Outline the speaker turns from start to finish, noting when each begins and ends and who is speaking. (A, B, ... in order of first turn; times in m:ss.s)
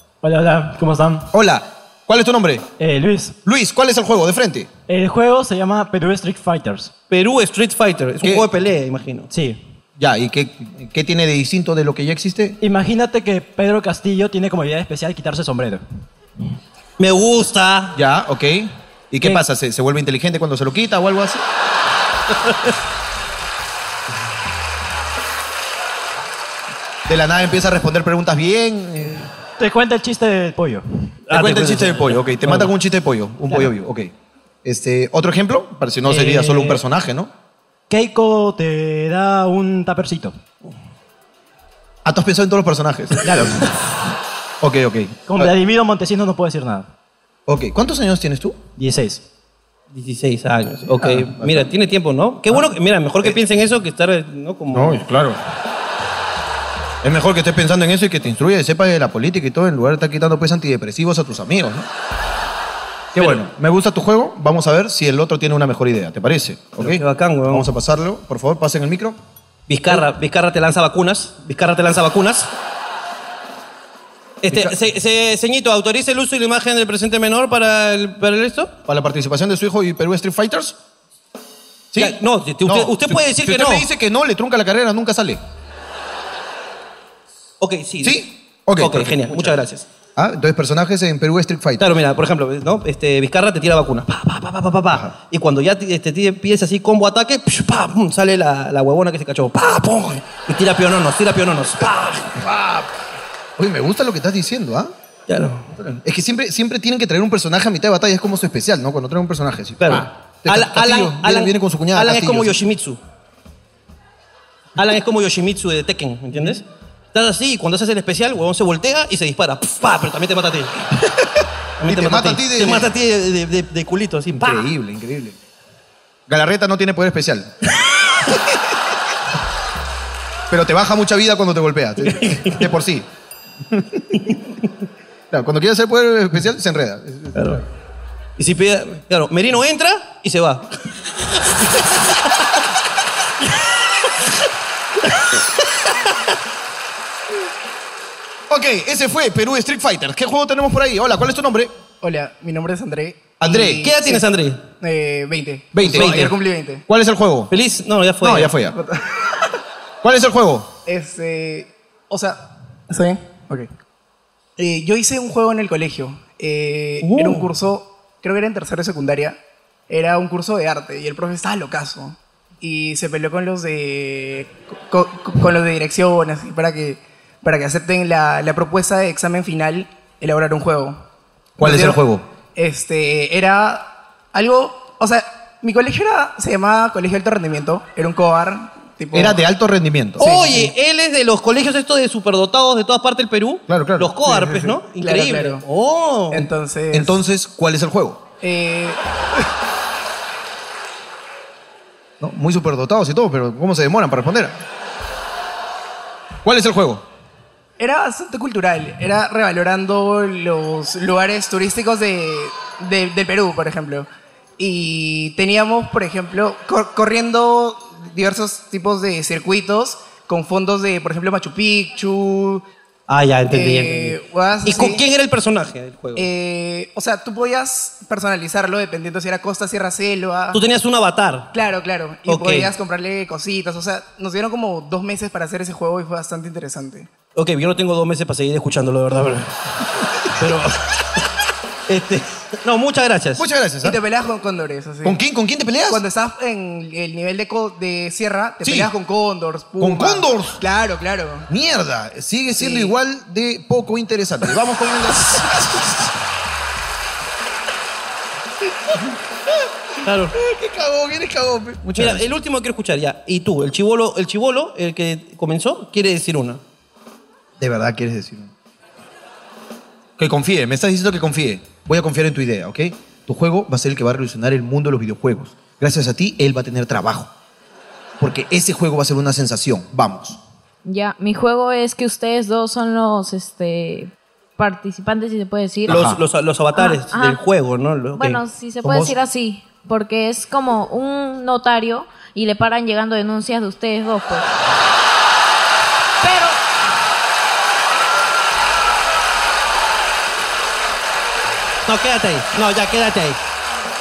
0:00.2-0:01.3 A
0:01.3-0:02.7 B
0:02.8-0:03.4 A
0:03.4-0:04.7 B
0:04.9-0:06.9 A
0:07.1-0:09.3 C
0:09.3-0:09.6 A
0:10.0-0:12.6 B
0:12.6-0:15.8 A
0:17.0-0:18.0 C
0:18.0-0:21.4 B
0:22.4-0:22.7 C
0:27.1-0:29.3 B
0:29.6-0:30.8 A
0:31.3-0:32.6 C
0:31.3-0:34.1 B
0:34.6-0:37.3 B
0:36.1-0:36.8 A
0:37.9-0:40.4 A
0:42.0-0:43.6 B
0:43.2-0:43.6 A
0:44.6-0:45.5 B
0:45.3-0:46.9 A
0:47.5-0:48.6 B
0:48.8-0:49.2 A
0:49.9-0:55.1 C
0:51.0-0:51.7 B
0:54.7-0:55.4 B
0:57.0-1:01.9 B
1:03.2-1:09.2 B
1:03.2-1:03.4 C
1:06.8-1:07.7 C
1:09.7-1:12.5 C
1:14.4-1:18.7 C
1:14.5-1:14.8 B
1:18.9-1:20.8 B
1:21.9-1:25.4 B
1:22.0-1:23.9 C
1:27.6-1:28.2 C
1:28.0-1:29.6 B
1:28.8-1:29.9 C
1:30.2-1:31.9 B
1:31.8-1:42.4 C
1:42.4-1:42.9 B
1:43.6-1:44.9 B
1:45.3-1:45.9 C
1:46.0-1:52.6 B
1:49.8-1:53.0 C
1:54.8-2:00.9 C
2:01.8-2:04.7 C
2:01.9-2:02.9 B
2:04.4-2:05.4 B
2:06.3-2:07.5 B
2:10.5-2:13.1 B
2:12.0-2:12.6 C
2:13.7-2:14.2 B
2:14.2-2:14.7 C
2:15.3-2:17.6 B
2:17.4-2:17.6 C
2:18.4-2:20.7 C
2:28.5-2:31.7 B
2:32.0-2:34.3 D
2:33.4-2:33.9 B
2:33.8-2:34.6 C
2:34.8-2:36.8 D
2:35.7-2:37.5 B
2:35.8-2:36.3 C
2:37.5-2:38.5 C
2:38.2-2:38.8 B
2:38.7-2:39.0 D
2:40.0-2:40.7 B
2:40.9-2:43.7 D
2:44.6-2:49.4 D
2:47.0-2:47.5 C
2:49.9-3:01.0 D
3:01.6-3:02.0 D
3:01.6-3:02.2 B
3:02.6-3:09.4 D
3:09.1-3:10.7 B
3:10.2-3:16.5 C
3:10.2-3:10.7 D
3:13.7-3:14.6 B
3:14.3-3:15.6 D
3:16.3-3:17.2 D
3:16.9-3:18.2 B
3:18.4-3:19.0 D
3:22.2-3:24.6 B
3:26.4-3:27.0 B
3:27.8-3:42.6 D
3:43.1-3:46.3 C
3:43.5-3:45.0 D
3:46.2-3:50.6 D
3:50.5-3:51.5 C
3:51.5-3:57.1 D
3:52.3-3:52.7 C
3:57.4-3:59.5 C
4:00.4-4:00.8 C
4:01.9-4:03.4 C
4:03.4-4:04.0 B
4:03.8-4:05.2 D
4:05.0-4:06.0 B
4:05.9-4:11.5 D
4:08.6-4:08.9 B
4:09.8-4:10.6 B
4:11.5-4:15.8 B
4:12.6-4:12.9 D
4:20.0-4:20.3 C
4:20.4-4:22.3 B
4:22.0-4:26.6 C
4:27.6-4:28.5 B
4:30.2-4:37.3 B
4:38.2-4:40.4 B
4:40.8-4:46.0 E
4:45.9-4:48.4 C
4:45.9-4:46.2 B
4:46.8-4:47.4 E
4:48.2-4:54.5 E
4:48.8-4:49.1 B
4:56.2-4:56.6 E
5:01.9-5:03.4 C